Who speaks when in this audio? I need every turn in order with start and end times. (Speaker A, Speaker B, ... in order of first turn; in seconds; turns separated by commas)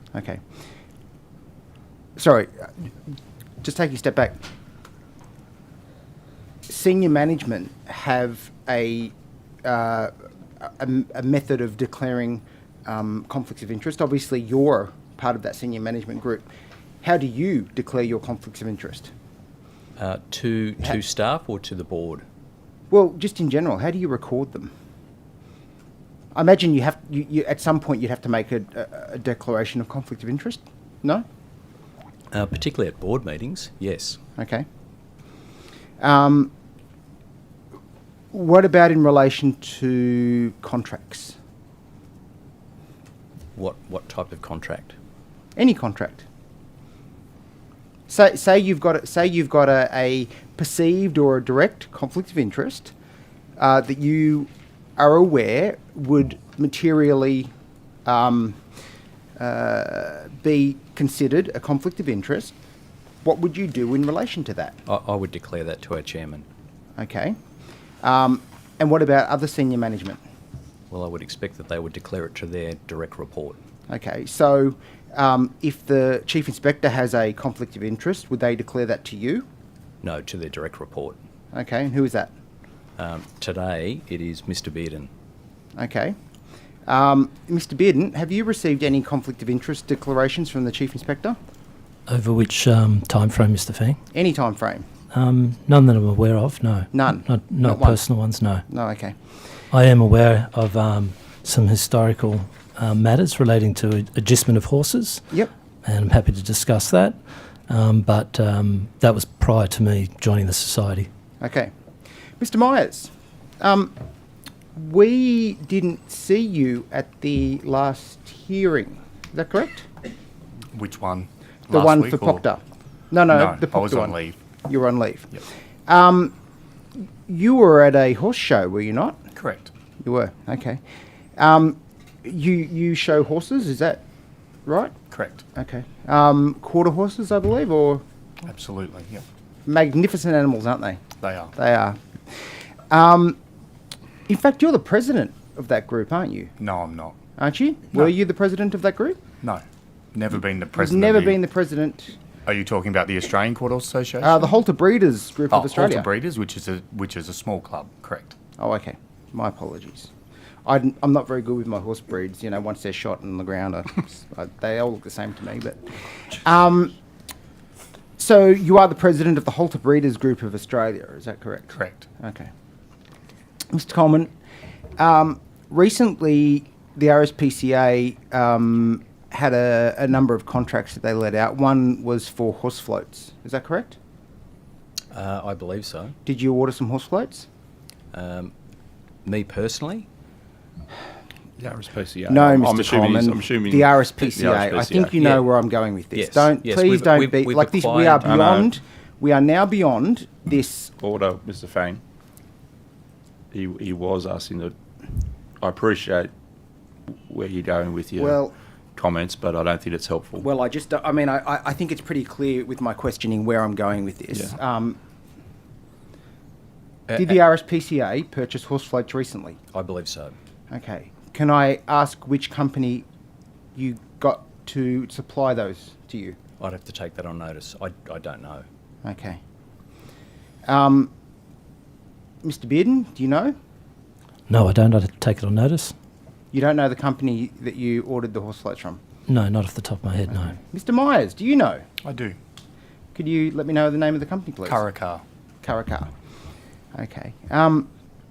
Speaker A: 0.1-0.4, Speaker A: 2.2-2.7, Speaker A: 3.6-4.4, Speaker A: 6.7-9.1, Speaker A: 9.6-16.4, Speaker A: 17.0-19.1, Speaker B: 20.0-22.2, Speaker A: 22.9-24.7, Speaker A: 26.3-31.2, Speaker B: 32.3-34.2, Speaker A: 34.4-34.6, Speaker A: 36.0-36.5, Speaker A: 38.3-41.4, Speaker B: 43.5-45.0, Speaker A: 45.5-46.2, Speaker A: 48.1-52.9, Speaker A: 53.6-57.5, Speaker A: 58.0-58.6, Speaker A: 59.4-62.5, Speaker A: 63.2-64.8, Speaker B: 64.8-66.5, Speaker A: 67.0-67.4, Speaker A: 68.0-70.2, Speaker B: 70.9-73.6, Speaker A: 73.9-79.5, Speaker B: 80.0-81.2, Speaker A: 81.5-82.3, Speaker B: 83.0-85.1, Speaker A: 85.8-86.2, Speaker A: 86.8-91.4, Speaker C: 92.1-94.0, Speaker A: 94.1-94.8, Speaker C: 95.1-98.6, Speaker A: 96.9-98.0, Speaker A: 98.7-99.1, Speaker C: 99.7-105.2, Speaker C: 105.8-107.2, Speaker C: 107.7-111.1, Speaker A: 111.4-111.7, Speaker A: 112.4-113.9, Speaker A: 114.7-119.9, Speaker D: 120.7-122.4, Speaker A: 121.7-126.3, Speaker D: 123.3-124.3, Speaker A: 127.3-129.2, Speaker D: 129.3-129.7, Speaker A: 130.0-130.8, Speaker A: 131.4-134.0, Speaker A: 134.7-134.9, Speaker D: 135.1-135.4, Speaker A: 135.5-138.0, Speaker D: 138.4-139.2, Speaker A: 139.7-142.0, Speaker D: 141.2-141.5, Speaker A: 142.9-143.4, Speaker A: 144.3-146.5, Speaker D: 146.6-147.2, Speaker A: 147.4-149.2, Speaker D: 150.1-151.4, Speaker A: 150.7-152.2, Speaker D: 152.4-154.5, Speaker A: 154.2-156.1, Speaker D: 155.5-158.3, Speaker A: 158.6-160.1, Speaker A: 160.6-166.9, Speaker A: 168.2-172.5, Speaker D: 171.7-172.0, Speaker A: 173.7-174.3, Speaker A: 175.0-183.9, Speaker B: 185.1-186.1, Speaker A: 186.2-187.5, Speaker B: 188.1-188.5, Speaker B: 189.2-190.1, Speaker E: 191.6-195.2, Speaker A: 192.3-200.9, Speaker B: 195.2-195.4, Speaker B: 196.1-198.7, Speaker E: 198.2-198.6, Speaker E: 201.0-202.0, Speaker E: 203.5-204.7, Speaker E: 205.6-206.3, Speaker E: 207.1-208.4, Speaker A: 208.2-208.5, Speaker E: 208.9-210.4, Speaker A: 210.4-215.0, Speaker A: 217.1-219.6, Speaker B: 219.7-220.3, Speaker A: 220.7-223.1, Speaker A: 223.7-226.3, Speaker B: 226.6-228.6, Speaker A: 229.0-229.4, Speaker A: 230.7-231.1, Speaker A: 232.4-233.5, Speaker C: 234.5-235.9, Speaker A: 236.5-239.0, Speaker C: 239.3-240.5, Speaker A: 240.3-241.8, Speaker D: 242.0-242.4, Speaker A: 243.1-244.8, Speaker D: 244.7-245.2, Speaker A: 245.6-246.1, Speaker A: 246.9-247.9